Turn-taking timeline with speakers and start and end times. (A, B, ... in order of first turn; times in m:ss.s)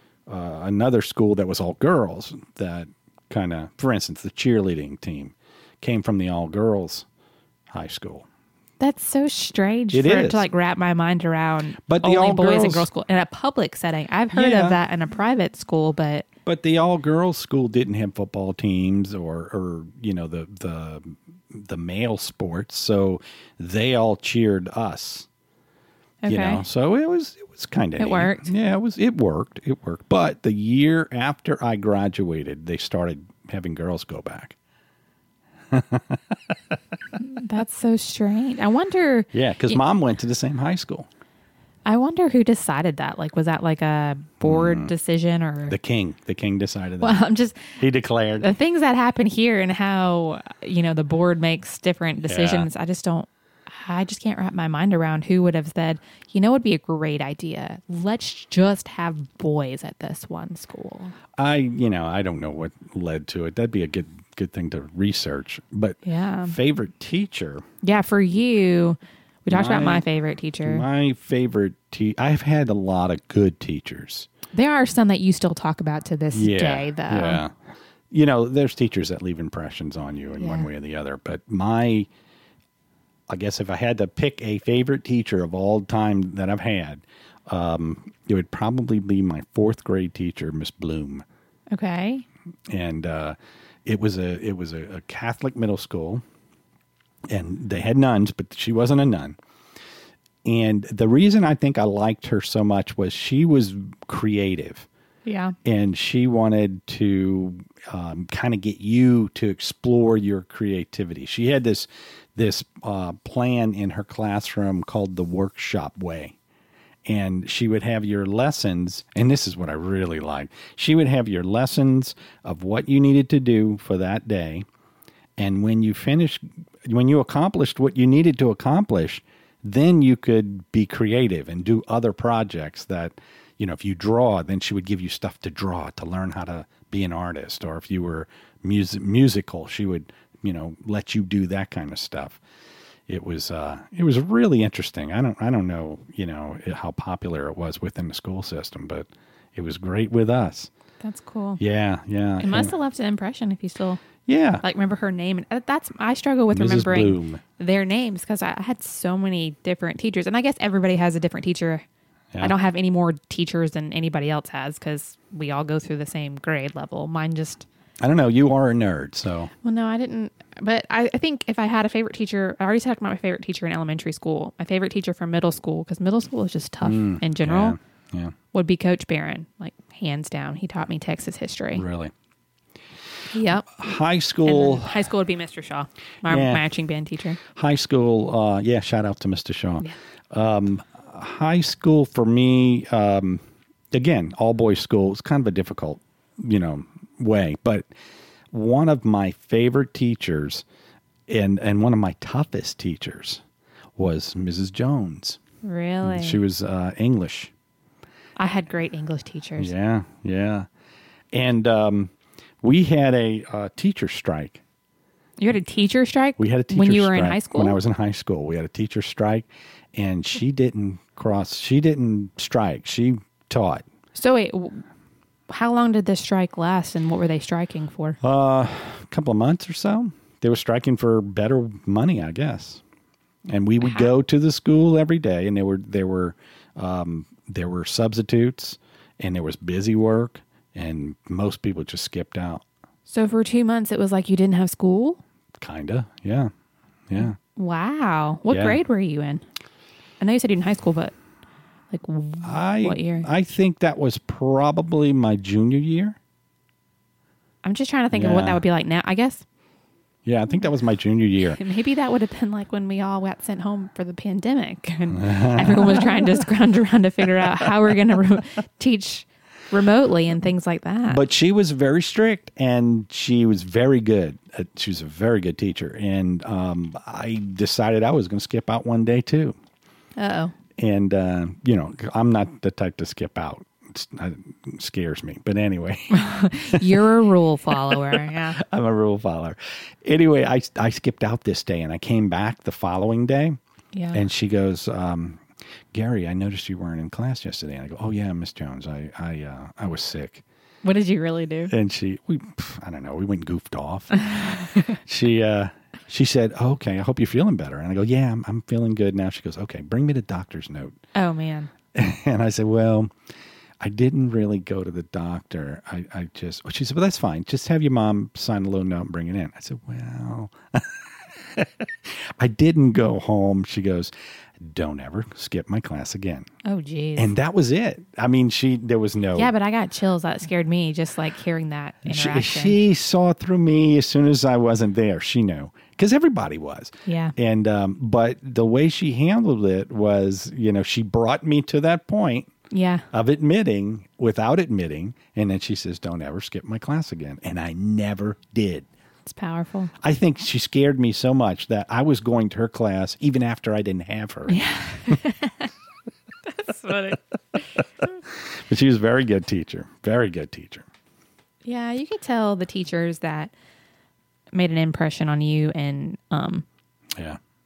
0:00.3-0:07.1 A
0:07.7-0:08.3 A
0:08.8-0:16.3 B
0:09.9-0:10.4 A
0:11.9-0:12.9 A
0:14.3-0:14.8 A
0:16.5-0:25.3 A
0:26.2-0:26.6 B
0:26.3-0:34.6 A
0:28.0-0:28.5 B
0:35.7-0:36.5 A
0:37.2-0:39.8 B
0:39.3-0:41.1 A
0:41.9-0:45.8 B
0:44.4-0:44.9 A
0:45.7-0:47.2 A
0:47.0-0:47.8 B
0:47.8-0:48.5 A
0:48.4-1:01.2 B
0:52.3-0:52.7 A
1:01.4-1:07.6 A
1:06.0-1:06.6 B
1:07.8-1:10.8 B
1:09.5-1:10.1 A
1:10.6-1:14.3 A
1:14.5-1:17.4 B
1:16.3-1:17.5 A
1:18.1-1:22.1 A
1:20.4-1:20.7 B
1:23.3-1:31.2 A
1:31.7-1:32.2 B
1:32.7-1:36.2 A
1:37.3-1:39.4 A
1:40.4-1:44.9 A
1:45.3-1:45.6 B
1:45.6-1:56.4 A
1:57.1-2:04.7 A
2:05.4-2:22.4 A
2:23.1-2:30.7 A
2:31.0-2:31.6 B
2:31.6-2:32.7 A
2:32.4-2:34.0 B
2:34.3-2:34.6 A
2:34.6-2:41.8 B
2:36.5-2:37.4 A
2:42.4-2:47.7 B
2:48.0-2:49.5 A
2:49.6-2:57.8 B
2:56.8-2:58.4 A
2:58.5-3:01.8 B
3:01.8-3:02.1 A
3:03.3-3:03.8 B
3:03.7-3:05.0 A
3:04.4-3:07.4 B
3:06.3-3:06.6 A
3:07.5-3:17.9 A
3:18.5-3:20.6 A
3:21.3-3:23.4 A
3:24.0-3:25.4 A
3:25.6-3:26.4 B
3:26.0-3:27.5 A
3:28.4-3:29.7 B
3:29.6-3:30.7 A
3:31.3-3:34.6 A
3:35.4-3:37.8 B
3:36.4-3:43.8 A
3:44.2-3:44.8 B
3:45.5-3:48.2 B
3:48.2-3:52.8 A
3:53.5-4:02.6 A
3:53.8-3:54.1 B
4:03.1-4:05.2 B
4:05.6-4:06.5 A
4:07.1-4:07.4 A
4:07.2-4:09.4 B
4:08.5-4:08.8 A
4:10.2-4:11.1 B
4:11.9-4:13.3 B
4:12.4-4:16.2 A
4:17.6-4:19.4 B
4:18.1-4:18.6 A
4:20.2-4:21.6 A
4:21.5-4:31.2 B
4:25.1-4:26.4 A
4:31.1-4:39.6 A
4:40.2-4:40.5 B
4:40.8-4:47.0 A
4:46.1-4:48.6 B
4:47.7-4:53.6 A
4:53.9-4:54.2 B
4:54.1-5:00.4 A
5:00.8-5:01.7 B
5:01.7-5:11.0 A
5:04.2-5:05.0 B
5:11.2-5:11.7 B
5:11.9-5:13.1 A
5:13.8-5:26.5 A
5:26.6-5:27.3 B
5:27.2-5:29.5 A
5:29.4-5:32.8 B
5:32.0-5:42.5 A
5:37.1-5:37.4 B
5:42.7-5:43.1 B
5:43.1-5:48.9 A
5:49.2-5:49.9 B
5:50.0-5:54.6 A
5:54.5-5:55.7 B
5:56.5-5:57.7 B
5:58.3-6:00.9 A
6:01.6-6:03.5 B
6:04.5-6:06.6 B